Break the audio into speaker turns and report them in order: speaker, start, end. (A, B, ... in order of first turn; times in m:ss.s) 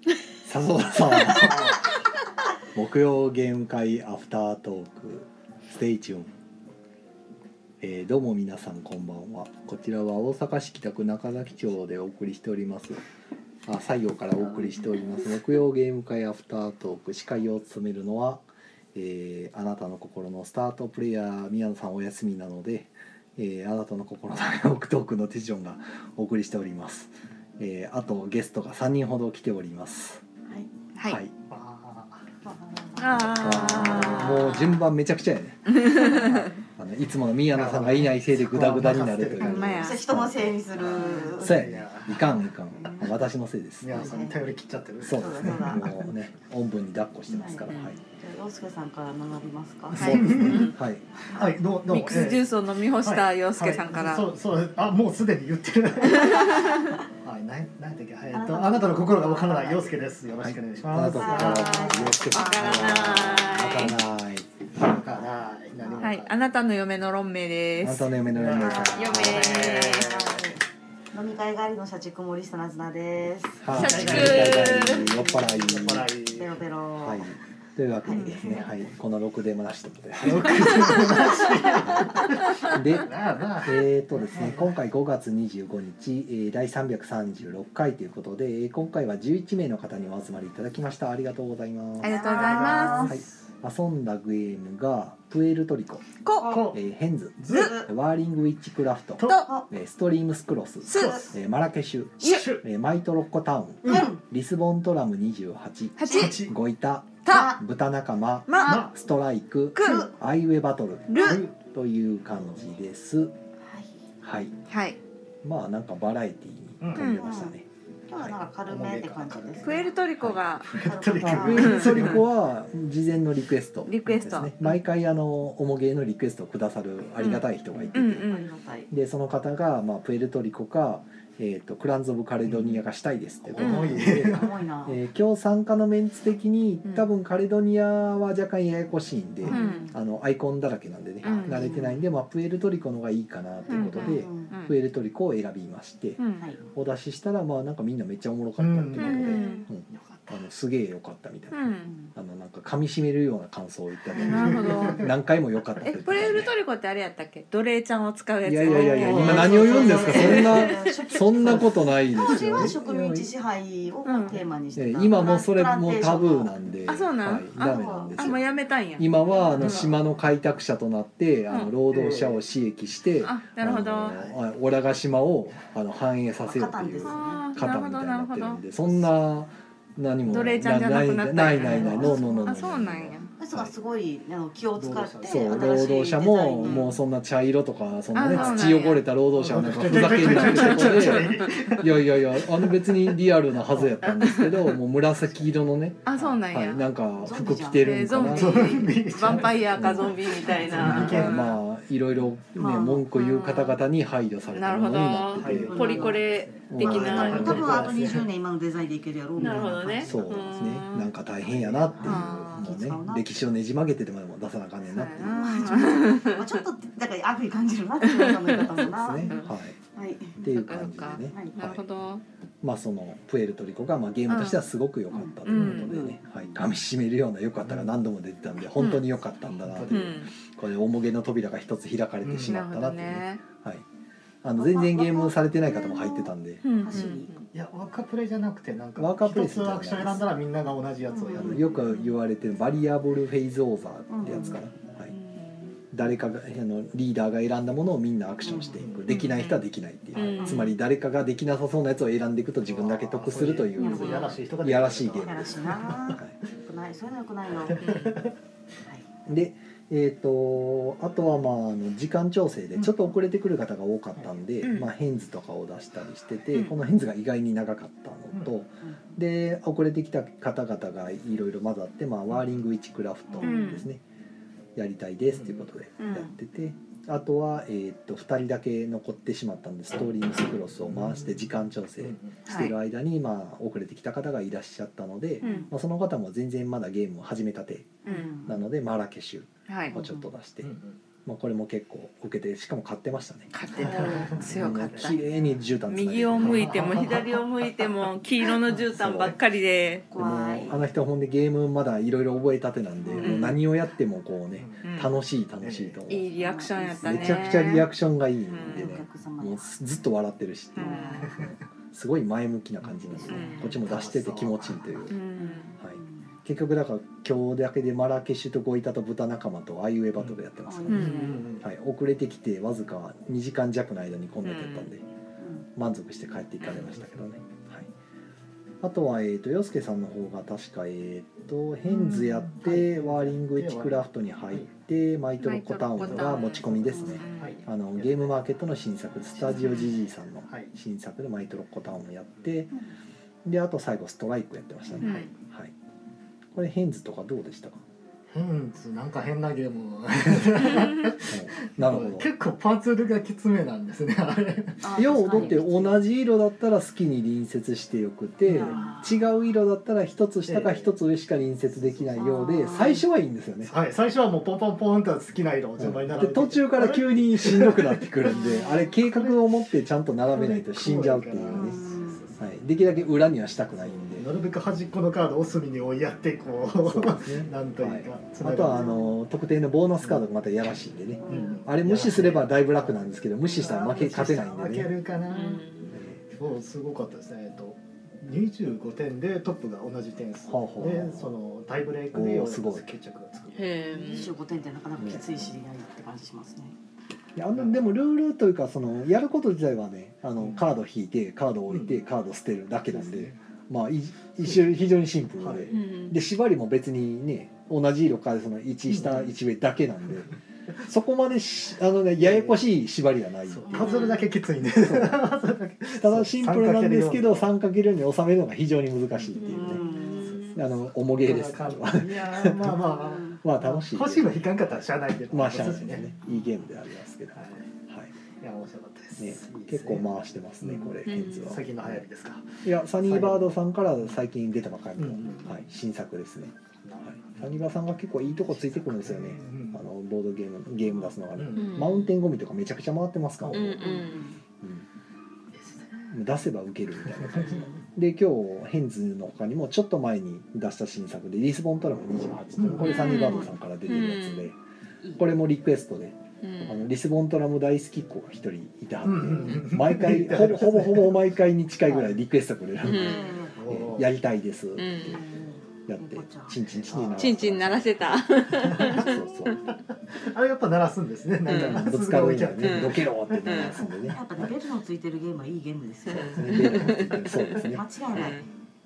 0:00.4-0:01.9 A
0:02.7-0:06.3 A
0:07.8-0:13.0 A
0:13.6-0:30.2 A
0:31.0-0:31.2 B
0:31.0-0:31.3 A
0:31.5-0:32.2 C
0:32.4-0:34.5 D
0:33.0-0:34.8 B
0:33.4-0:40.6 A
0:35.7-0:36.5 B
0:35.9-0:36.6 D
0:37.5-0:39.8 C
0:39.4-0:40.0 B
0:39.8-0:41.6 D
0:40.7-0:42.4 C
0:41.4-0:44.0 A
0:42.7-0:43.1 D
0:43.8-0:46.0 C
0:43.9-0:44.4 D
0:45.0-0:48.0 A
0:45.1-0:46.0 D
0:47.3-0:51.5 D
0:47.7-0:48.0 B
0:50.0-0:51.0 A
0:50.0-0:50.7 C
0:50.0-0:50.7 B
0:51.3-0:52.5 C
0:51.9-0:54.3 B
0:53.0-1:02.1 C
0:56.1-0:56.8 B
0:56.1-0:57.0 D
0:58.3-1:00.0 D
1:00.4-1:04.5 A
1:01.0-1:03.1 D
1:01.3-1:04.0 B
1:04.8-1:06.4 C
1:05.8-1:06.2 D
1:06.0-1:10.4 B
1:07.8-1:09.8 A
1:08.3-1:09.7 C
1:08.6-1:13.9 D
1:13.6-1:16.1 A
1:13.7-1:15.1 B
1:13.7-1:16.6 C
1:16.3-1:17.3 D
1:17.0-1:22.1 A
1:18.0-1:18.6 D
1:18.3-1:18.7 C
1:20.2-1:24.8 C
1:22.6-1:23.1 A
1:23.6-1:32.2 A
1:32.0-1:33.2 B
1:32.0-1:33.2 D
1:32.0-1:33.2 C
1:33.1-1:36.1 A
1:36.2-1:36.7 B
1:36.4-1:36.8 C
1:36.7-1:53.3 A
1:37.4-1:37.8 C
1:37.5-1:37.9 D
1:39.2-1:39.5 C
1:39.2-1:39.5 B
1:40.9-1:41.3 B
1:40.9-1:41.3 D
1:42.2-1:42.6 C
1:43.9-1:44.2 D
1:46.0-1:46.4 B
1:46.1-1:46.6 C
1:47.3-1:47.6 B
1:47.3-1:47.6 D
1:48.5-1:48.8 B
1:48.6-1:48.9 C
1:49.8-1:50.1 B
1:51.1-1:51.4 B
1:51.2-1:51.5 C
1:53.7-1:53.9 D
1:54.2-1:54.5 A
1:54.7-1:55.0 B
1:55.4-1:57.7 A
1:56.8-1:57.1 C
1:57.0-1:57.5 B
1:57.2-1:57.6 D
1:58.1-2:00.0 D
1:58.2-2:02.3 C
1:59.6-2:00.8 B
2:00.8-2:02.1 D
2:01.2-2:08.3 A
2:01.5-2:02.1 B
2:03.9-2:04.8 B
2:07.2-2:08.5 B
2:08.1-2:08.9 D
2:08.9-2:26.2 A
2:12.5-2:12.8 C
2:13.5-2:14.6 C
2:13.6-2:14.0 B
2:13.9-2:15.0 D
2:19.4-2:20.0 D
2:19.5-2:19.9 B
2:21.2-2:21.7 B
2:21.5-2:22.1 D
2:23.7-2:24.7 B
2:23.8-2:24.5 D
2:26.2-2:26.5 B
2:26.7-2:36.5 A
2:28.6-2:30.4 C
2:29.0-2:29.7 B
2:29.4-2:29.7 D
2:31.5-2:31.9 B
2:31.9-2:32.1 D
2:34.1-2:35.1 C
2:34.2-2:35.0 B
2:35.8-2:40.9 B
2:38.4-2:43.3 A
2:38.7-2:46.5 D
2:38.8-2:40.0 C
2:42.2-2:42.5 B
2:44.1-2:44.4 B
2:44.8-2:48.4 A
2:46.9-2:49.9 B
2:47.6-2:48.3 D
2:49.0-3:03.2 A
2:49.6-2:49.9 C
2:51.9-2:52.4 C
2:53.2-2:54.2 B
2:54.1-2:54.4 C
2:56.4-2:57.5 D
2:57.0-2:58.6 B
3:00.3-3:03.3 B
3:01.5-3:02.6 D
3:03.4-3:07.0 D
3:04.8-3:05.9 C
3:05.2-3:18.9 A
3:06.6-3:06.9 B
3:08.1-3:09.0 B
3:08.2-3:08.8 C
3:09.3-3:13.2 C
3:09.9-3:11.5 B
3:14.2-3:14.6 B
3:16.1-3:16.8 B
3:16.2-3:16.4 C
3:17.2-3:18.2 D
3:17.8-3:21.6 B
3:18.2-3:21.6 C
3:19.7-3:25.9 A
3:22.6-3:23.0 D
3:22.6-3:23.8 B
3:24.5-3:27.9 B
3:25.3-3:28.3 C
3:25.5-3:30.1 D
3:26.7-3:27.9 A
3:29.4-3:30.1 C
3:29.4-3:31.1 B
3:30.0-3:35.7 A
3:31.4-3:32.6 C
3:32.0-3:32.7 B
3:32.0-3:33.4 D
3:34.9-3:36.5 B
3:35.2-3:39.4 D
3:38.2-3:39.5 B
3:38.8-3:39.8 A
3:39.9-3:40.4 D
3:40.4-3:41.8 A
3:40.4-3:42.2 B
3:42.6-3:53.8 A
3:44.3-3:44.7 B
3:45.1-3:46.2 D
3:45.4-3:45.9 B
3:47.6-3:47.9 C
3:48.8-3:49.0 B
3:49.6-3:50.1 C
3:49.9-3:50.3 B
3:52.2-3:52.6 C
3:52.4-3:53.4 B
3:54.4-3:56.6 A
3:54.6-3:57.3 D
3:56.6-3:57.5 B
3:57.5-4:01.9 C
3:59.0-4:00.2 A
4:01.1-4:01.6 D
4:01.3-4:05.2 A
4:04.1-4:04.6 D
4:05.1-4:05.8 B
4:05.9-4:15.6 A
4:08.4-4:08.8 D
4:08.8-4:09.2 C
4:09.1-4:09.6 B
4:10.1-4:10.7 B
4:10.2-4:10.4 C
4:10.4-4:10.7 D
4:12.6-4:16.2 C
4:13.8-4:14.4 D
4:13.8-4:14.4 B
4:15.2-4:18.0 D
4:17.7-4:18.4 C
4:17.8-4:18.2 B
4:19.3-4:34.0 A
4:24.6-4:24.9 B
4:28.8-4:29.2 D
4:33.3-4:33.7 D
4:33.4-4:33.9 B
4:34.8-4:50.7 A
4:35.4-4:35.7 C
4:36.0-4:36.3 B
4:40.8-4:42.4 C
4:42.5-4:42.8 B
4:45.4-4:45.7 D
4:45.4-4:45.7 B
4:48.0-4:48.6 D
4:48.1-4:48.3 B
4:49.7-4:50.0 B
4:49.9-4:50.3 D
4:50.6-4:51.0 C
4:51.2-4:53.5 A
4:53.5-4:55.2 B
4:53.8-4:55.2 C
4:53.9-4:54.4 D
4:54.4-4:57.1 A
4:55.9-5:00.1 B
4:56.4-4:57.9 C
4:58.8-4:59.4 A
5:00.1-5:00.8 D
5:00.2-5:06.3 A
5:03.1-5:03.4 D
5:03.1-5:03.6 B
5:04.6-5:04.8 C
5:04.8-5:05.2 B
5:05.6-5:06.0 C
5:06.1-5:07.9 B
5:06.4-5:07.7 D
5:07.0-5:15.2 A
5:08.5-5:09.0 B
5:08.7-5:09.7 D
5:10.8-5:11.3 B
5:10.8-5:11.4 D
5:11.2-5:11.6 C
5:12.8-5:15.1 C
5:13.3-5:13.8 B
5:13.3-5:13.6 D
5:15.1-5:15.7 B
5:15.4-5:16.3 D
5:15.8-5:25.0 A
5:20.7-5:21.5 D
5:20.9-5:21.4 B
5:20.9-5:21.7 C
5:24.4-5:24.9 B
5:25.4-5:25.7 D
5:25.8-5:27.9 A
5:26.6-5:26.9 B
5:26.9-5:27.2 C
5:28.8-5:42.7 A
5:31.9-5:34.7 C
5:35.4-5:37.6 B
5:36.0-5:38.4 C
5:39.5-5:40.0 B
5:43.4-5:45.7 A
5:44.9-5:45.4 D
5:45.0-5:45.3 B
5:46.5-5:47.8 A
5:48.3-5:55.5 C
5:51.3-5:52.3 A
5:54.8-5:56.0 D
5:54.9-6:03.7 A
5:58.4-5:59.0 C
5:58.5-5:59.2 D
6:00.5-6:01.0 C
6:01.7-6:02.3 C
6:02.2-6:03.0 D
6:03.6-6:09.4 C
6:05.8-6:11.8 A
6:08.5-6:08.8 B
6:10.4-6:12.5 C
6:11.5-6:12.2 D
6:12.4-6:14.2 A
6:13.8-6:19.0 C
6:16.7-6:24.9 A
6:18.7-6:19.1 D
6:21.2-6:21.6 D
6:21.3-6:25.6 C
6:25.3-6:25.9 B
6:25.9-6:26.2 A
6:26.3-6:33.8 C
6:30.5-6:31.3 A
6:32.1-6:32.9 A
6:33.6-6:34.3 B
6:33.9-6:36.8 D
6:35.0-6:35.2 A
6:37.4-6:53.9 A
6:37.6-6:37.9 C
6:40.4-6:40.7 C
6:41.7-6:42.0 C
6:42.9-6:43.4 C
6:45.4-6:45.9 C
6:45.7-6:46.2 B
6:48.9-6:49.3 C
6:52.2-6:52.6 C
6:53.5-6:57.5 C
6:53.7-6:54.3 D
6:54.8-6:55.2 A
6:55.9-6:59.8 A
6:59.2-7:06.2 C
6:59.4-7:00.4 D
6:59.7-7:00.6 B
7:00.5-7:02.9 A
7:03.4-7:08.1 A
7:06.2-7:06.6 D
7:07.4-7:07.7 C
7:08.4-7:13.5 C
7:09.2-7:12.0 A
7:11.0-7:11.6 B
7:12.6-7:16.5 A
7:15.0-7:15.6 C
7:16.8-7:17.6 C
7:17.0-7:24.0 A
7:18.2-7:19.8 C
7:21.3-7:21.8 C
7:21.5-7:22.1 B
7:23.4-7:24.2 C
7:23.5-7:24.3 B
7:23.8-7:24.4 D
7:24.6-7:24.9 A
7:25.6-7:26.1 C
7:26.1-7:34.6 A
7:27.2-7:27.7 C
7:32.6-7:33.3 C
7:32.8-7:34.5 B
7:35.2-7:45.2 A
7:36.4-7:36.8 B
7:39.0-7:41.2 C
7:41.8-7:42.2 C
7:42.8-7:43.4 B
7:42.9-7:43.6 D
7:43.6-7:44.1 C
7:44.8-7:45.2 B
7:45.0-7:46.6 D
7:45.9-7:49.6 A
7:46.9-7:47.4 C
7:47.2-7:49.6 B
7:48.5-7:54.2 C
7:51.5-7:51.9 B
7:51.5-7:54.2 A
7:52.6-7:53.9 B
7:54.1-7:56.7 D
7:56.1-7:58.5 B
7:56.2-7:58.4 A
7:57.7-7:58.5 D